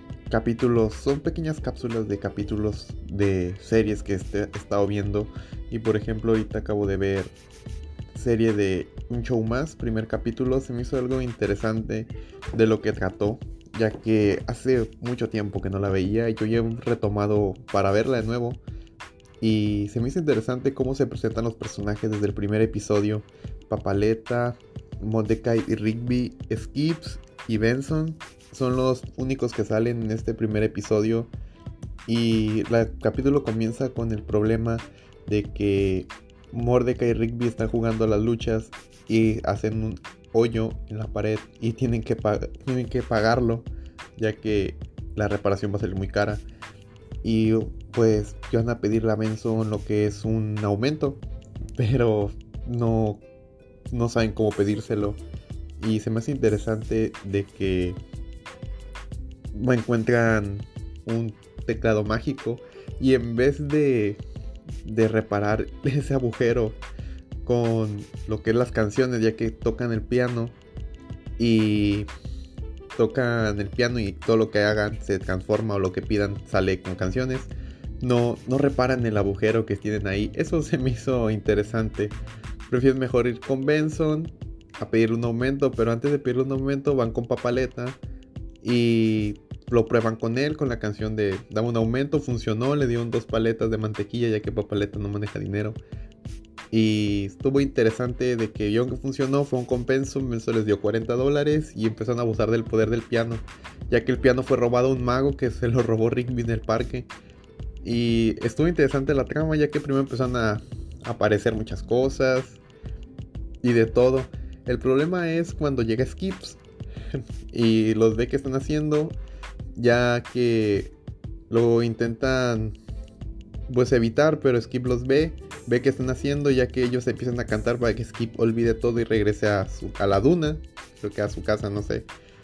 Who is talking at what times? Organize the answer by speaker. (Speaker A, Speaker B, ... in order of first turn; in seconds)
Speaker A: 0.3-7.3, 8.1-18.6, 19.4-31.3, 32.0-46.4, 47.2-51.2, 51.8-53.2, 53.9-55.2, 55.8-58.0, 59.5-64.2, 64.8-66.8, 67.4-70.6, 71.4-72.1, 72.9-82.2, 82.7-88.0, 88.6-95.8, 96.7-107.1, 107.8-112.6, 113.6-116.6, 117.5-119.2, 119.7-120.9, 121.5-122.7, 123.7-132.1